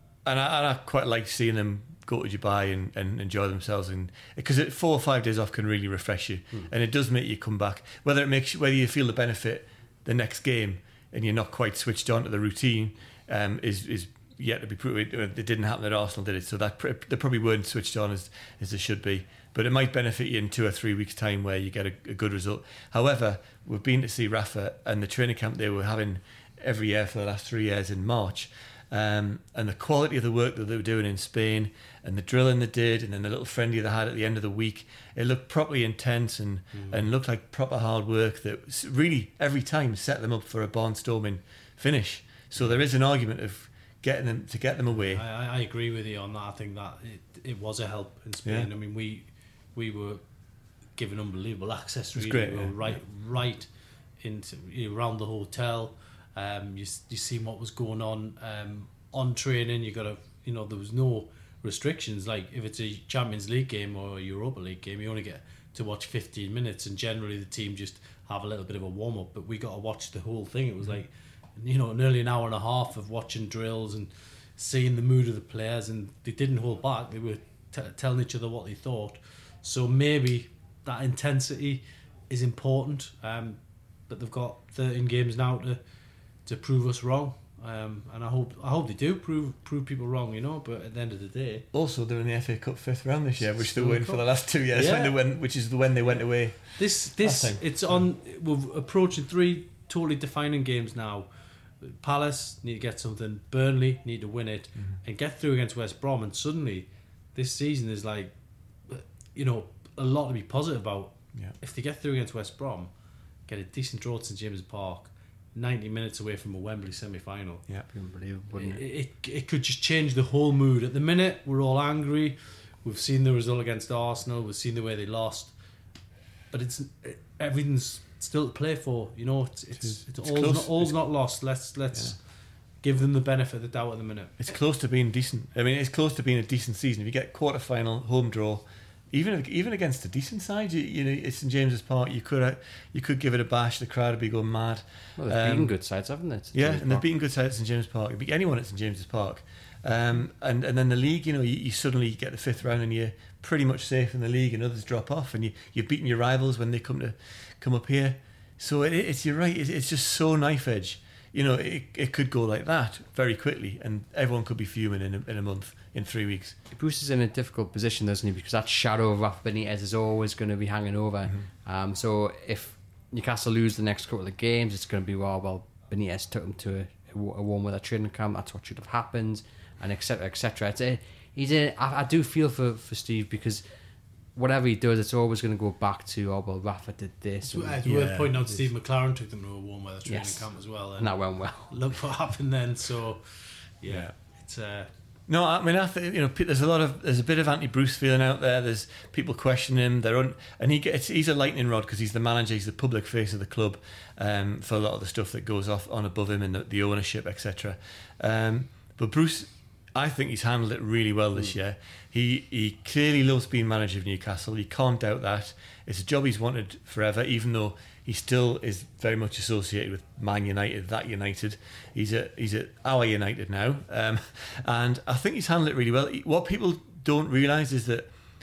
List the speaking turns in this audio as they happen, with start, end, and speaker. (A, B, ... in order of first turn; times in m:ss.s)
0:00.2-0:45.2 A
0:36.7-0:37.0 B
0:45.0-0:50.2 B
0:51.0-0:53.7 B
0:52.2-0:53.0 A
0:54.2-1:25.8 B
1:26.4-1:31.7 B
1:31.7-1:38.0 A
1:33.4-1:35.2 B
1:36.8-1:41.3 B
1:41.8-1:48.3 B
1:48.9-1:52.9 B
1:53.5-1:57.7 B
1:57.9-1:58.8 C
1:58.5-2:05.6 B
2:06.5-2:12.3 B
2:09.8-2:11.0 A
2:11.9-2:12.2 A
2:12.8-2:14.6 B
2:14.4-2:25.7 A
2:25.2-2:27.1 C
2:26.5-2:46.6 A
2:46.7-3:03.6 C
3:04.4-3:07.8 C
3:07.5-3:14.9 B
3:07.8-3:08.6 A
3:10.0-3:11.8 C
3:13.9-3:14.1 A
3:15.3-3:48.1 A